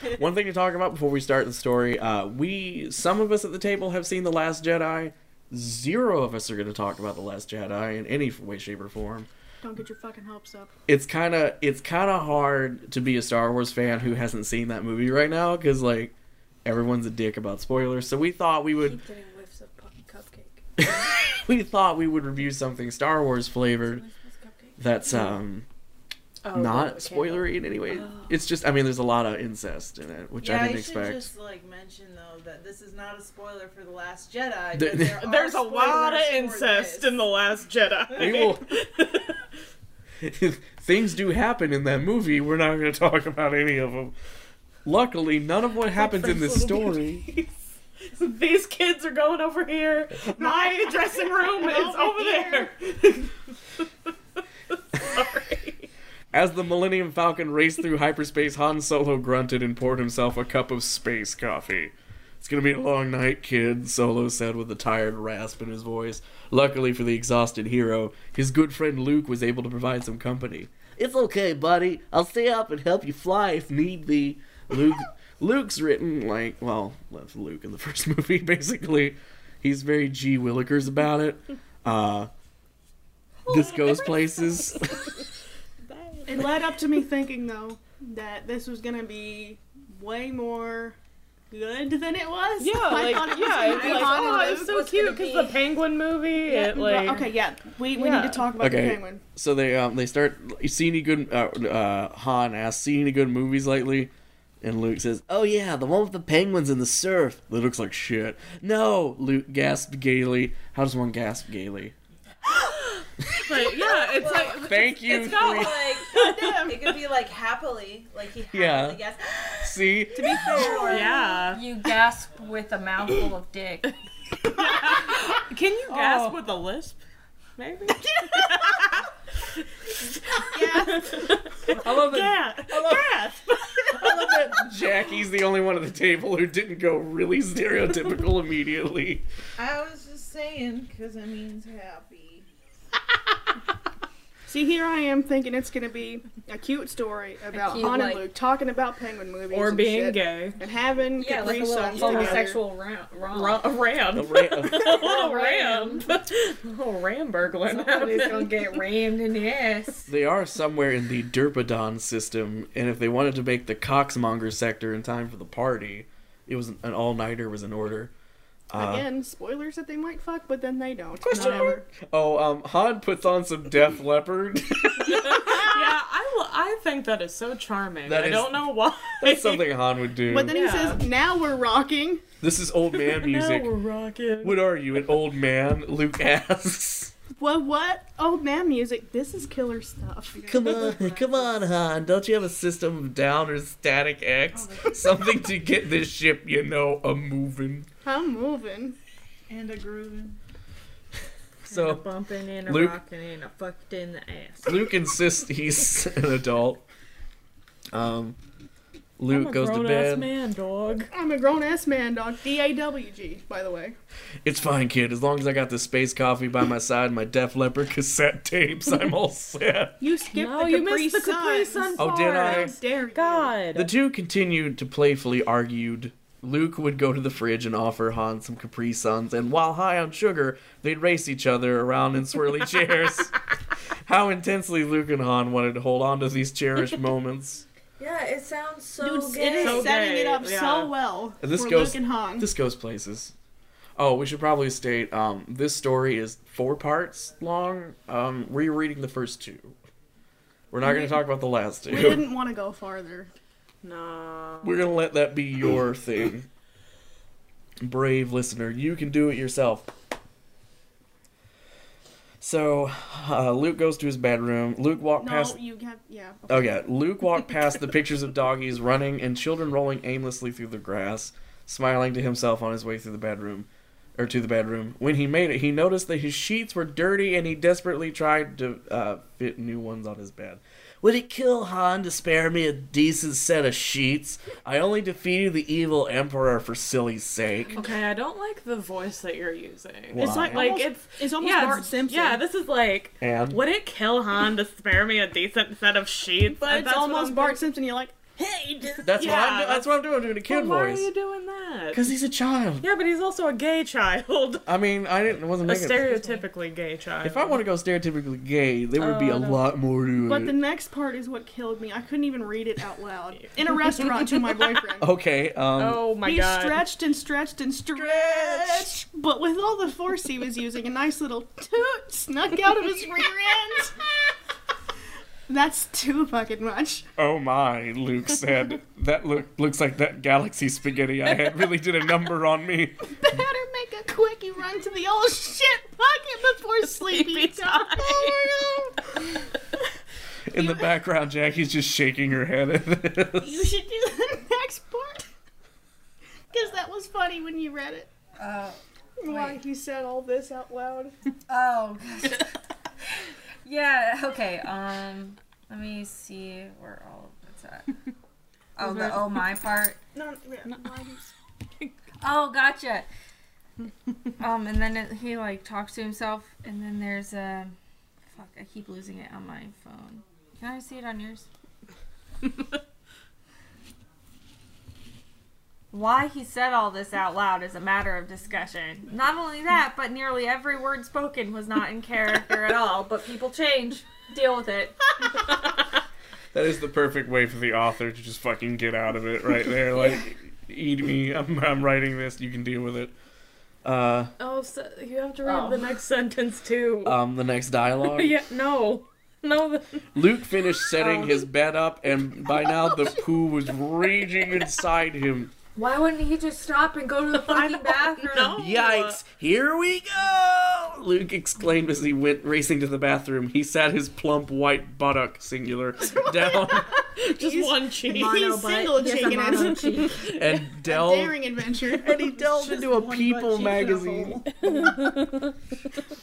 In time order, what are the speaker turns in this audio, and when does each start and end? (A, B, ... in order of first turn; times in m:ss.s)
0:00.2-0:09.3 A
0:09.6-0:10.7 B
0:10.9-0:16.1 A
0:16.6-0:19.0 A
0:18.8-0:20.6 C
0:20.8-0:24.0 A
0:24.0-0:24.7 C
0:24.8-0:25.7 A
0:26.4-0:28.3 D
0:26.5-0:31.3 A
0:30.4-0:37.3 E
0:34.7-0:35.2 A
0:35.2-0:39.4 D
0:38.2-0:38.8 A
0:40.2-0:44.1 A
0:44.8-0:47.2 A
0:46.0-0:47.5 D
0:48.1-0:53.3 D
0:50.4-0:52.7 B
0:55.0-0:55.9 D
0:56.3-1:22.3 A
1:23.5-1:25.1 A
1:23.5-1:24.1 C
1:25.9-1:26.4 D
1:26.3-1:31.0 B
1:31.5-1:34.8 B
1:32.6-1:37.3 D
1:33.4-1:35.6 C
1:36.5-1:39.2 B
1:38.0-1:38.5 D
1:38.6-1:52.0 A
1:53.2-1:53.8 A
1:53.5-1:57.0 D
1:54.2-1:54.6 E
1:54.3-1:56.0 A
1:55.2-2:01.2 E
1:55.2-1:56.1 C
1:58.5-1:59.0 A
1:59.6-2:00.9 A
2:00.2-2:01.2 B
2:00.7-2:01.6 D
2:01.2-2:03.9 C
2:04.4-2:07.0 D
2:07.6-2:09.0 D
2:08.1-2:08.9 B
2:09.8-2:14.7 D
2:10.5-2:11.3 B
2:11.7-2:19.3 A
2:19.6-2:22.5 E
2:24.5-2:32.6 B
2:27.5-2:28.3 C
2:29.5-2:30.6 D
2:31.2-2:33.7 C
2:31.9-2:32.4 D
2:33.3-2:38.8 D
2:34.1-2:34.8 A
2:34.8-2:36.1 C
2:37.7-2:40.1 C
2:40.1-2:48.1 A
2:48.7-2:49.1 A
2:48.7-2:51.8 B
2:51.2-2:55.7 A
2:51.3-2:51.8 D
2:55.0-2:59.7 D
2:58.1-3:00.6 A
3:00.3-3:02.2 B
3:00.5-3:01.0 D
3:02.4-3:03.7 A
3:02.9-3:04.6 D
3:04.4-3:07.1 A
3:07.4-3:10.9 B
3:10.3-3:11.6 E
3:10.5-3:17.9 A
3:14.5-3:15.3 E
3:18.0-3:19.0 B
3:19.5-3:20.4 E
3:21.7-3:22.0 A
3:21.7-3:22.8 E
3:21.8-3:24.6 C
3:22.7-3:23.0 A
3:23.6-3:24.7 E
3:24.6-3:26.8 A
3:27.9-3:28.4 A
3:29.2-3:30.3 A
3:29.3-3:31.1 D
3:31.1-3:34.0 B
3:34.4-3:40.0 A
3:40.0-3:43.5 B
3:40.3-3:43.9 D
3:42.0-3:42.8 A
3:43.8-3:53.3 A
3:54.0-3:57.6 A
3:58.0-4:00.0 C
3:59.0-4:02.5 B
3:59.6-4:00.9 D
4:01.4-4:03.3 A
4:04.0-4:09.8 A
4:10.7-4:12.3 A
4:10.8-4:11.2 B
4:11.9-4:13.3 B
4:13.8-4:14.9 D
4:14.6-4:16.5 A
4:17.8-4:19.9 A
4:22.4-4:25.6 A
4:25.2-4:26.8 B
4:26.5-4:47.7 A
4:47.7-4:57.6 D
4:50.1-4:50.7 A
4:50.2-4:52.4 B
4:53.2-4:53.6 A
4:56.6-4:58.3 B
4:58.4-5:02.0 D
4:59.0-5:01.1 A
5:01.9-5:02.9 A
5:02.8-5:04.7 D
5:04.7-5:06.3 A
5:05.6-5:07.6 D
5:07.2-5:10.6 A
5:09.0-5:09.6 D
5:10.2-5:15.1 B
5:13.9-5:14.7 D
5:15.0-5:16.0 A
5:15.8-5:16.8 D
5:16.2-5:24.3 B
5:17.9-5:19.0 A
5:25.5-5:27.1 B
5:27.2-5:33.1 A
5:33.1-5:39.4 B
5:36.9-5:38.4 D
5:40.5-5:43.6 A
5:43.4-5:45.3 B
5:46.5-5:48.1 B
5:48.4-5:49.6 C
5:49.2-5:51.2 B
5:51.5-5:52.5 C
5:53.6-5:57.9 C
5:58.8-6:00.0 C
5:58.8-5:59.3 D
6:00.2-6:01.3 B
6:02.2-6:03.1 C
6:04.4-6:07.8 C
6:08.3-6:11.5 C
6:15.9-6:25.8 C
6:26.5-6:33.1 A
6:33.8-6:34.3 A
6:34.4-6:37.2 D
6:35.4-6:35.9 C
6:37.0-6:38.4 A
6:38.1-6:40.0 D
6:40.1-6:45.5 A
6:41.0-6:41.4 D
6:45.8-6:48.6 C
6:47.4-6:49.2 D
6:48.5-6:56.9 A
6:56.1-7:00.1 B
6:57.2-6:58.5 D
6:58.1-7:00.3 C
6:59.5-7:00.1 D
7:00.2-7:04.4 A
7:00.8-7:02.3 B
7:02.3-7:04.9 E
7:04.6-7:05.6 D